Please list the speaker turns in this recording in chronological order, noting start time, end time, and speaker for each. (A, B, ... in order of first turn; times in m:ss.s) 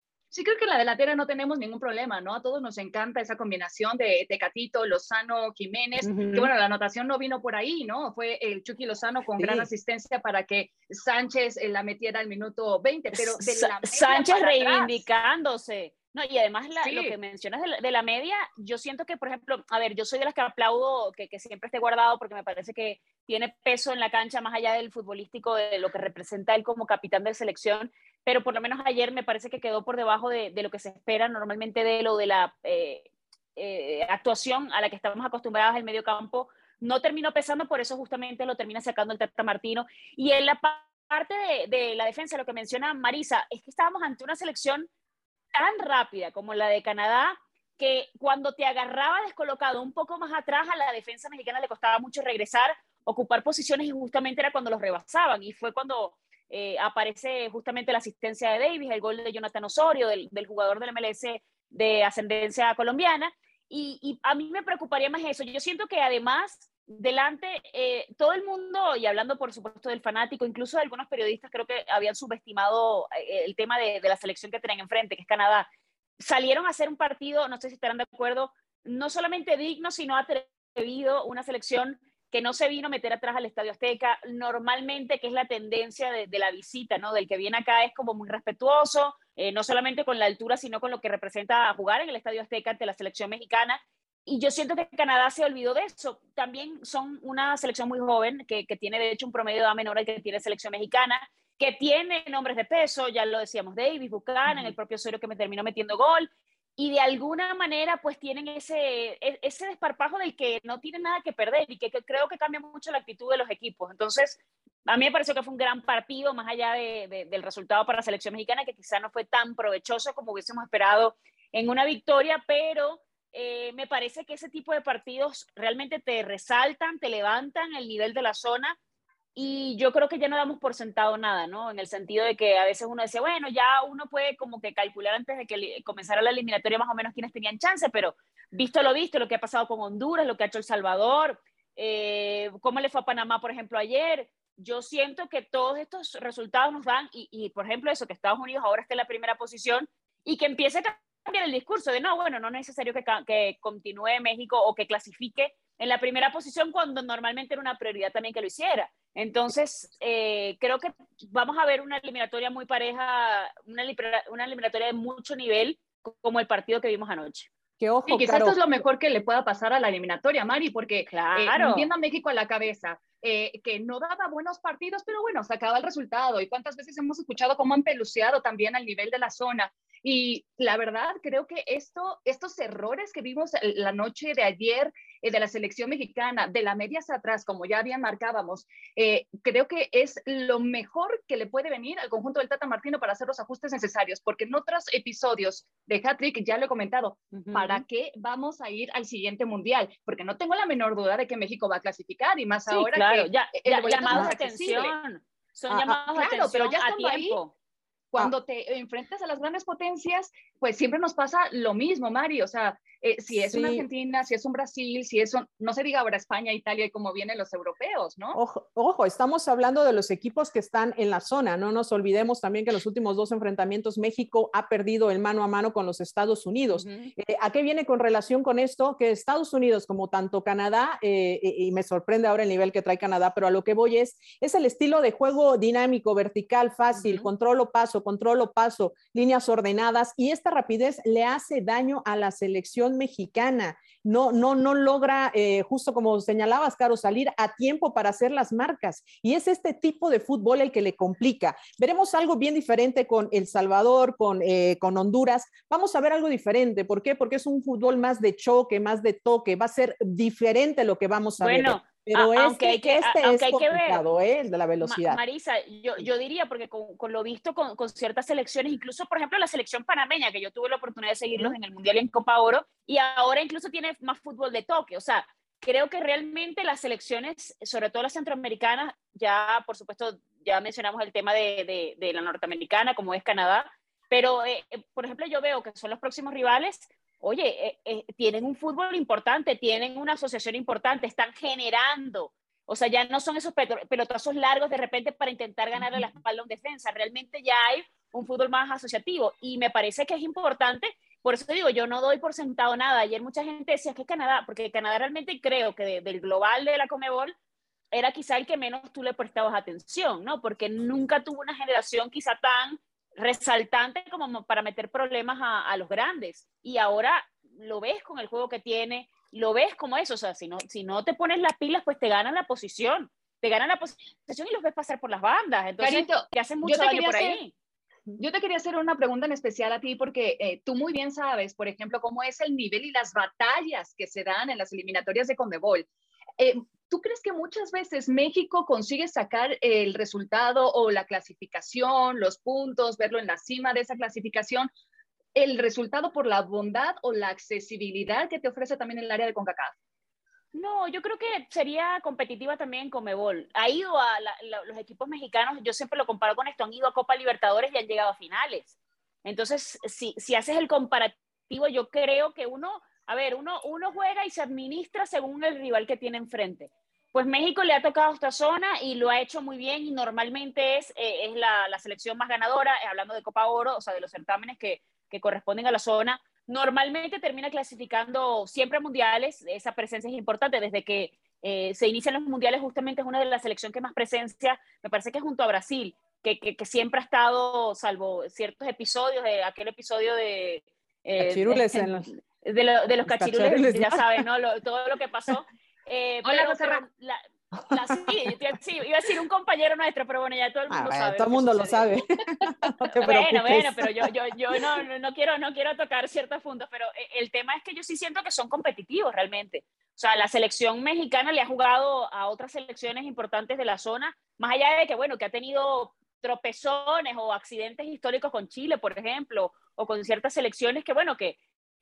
0:00.3-0:15.0 A
0:06.0-0:06.5 B
0:09.4-0:09.7 C
0:13.1-0:44.9 B
0:16.8-0:17.1 A
0:45.5-1:15.7 B
1:16.2-2:08.8 B
2:09.3-2:47.5 B
2:47.8-2:48.6 C
2:48.1-3:24.9 A
2:51.1-2:51.9 B
3:17.3-3:17.8 B
3:22.7-3:27.5 B
3:25.7-3:26.0 C
3:26.1-3:27.4 A
3:28.1-3:38.4 A
3:33.3-3:33.8 C
3:38.3-4:25.2 C
3:46.7-3:47.1 B
3:56.9-3:57.3 B
4:21.4-4:24.0 B
4:24.8-5:07.4 B
4:55.8-4:56.0 C
5:07.9-5:27.5 B
5:25.8-5:27.4 A
5:28.2-5:35.9 A
5:36.4-5:44.7 A
5:45.3-5:49.7 A
5:50.5-6:42.0 B
6:31.2-6:32.1 C
6:33.1-6:34.1 C
6:36.2-6:36.8 A
6:37.6-6:38.3 C
6:40.7-6:44.1 C
6:42.9-7:01.4 B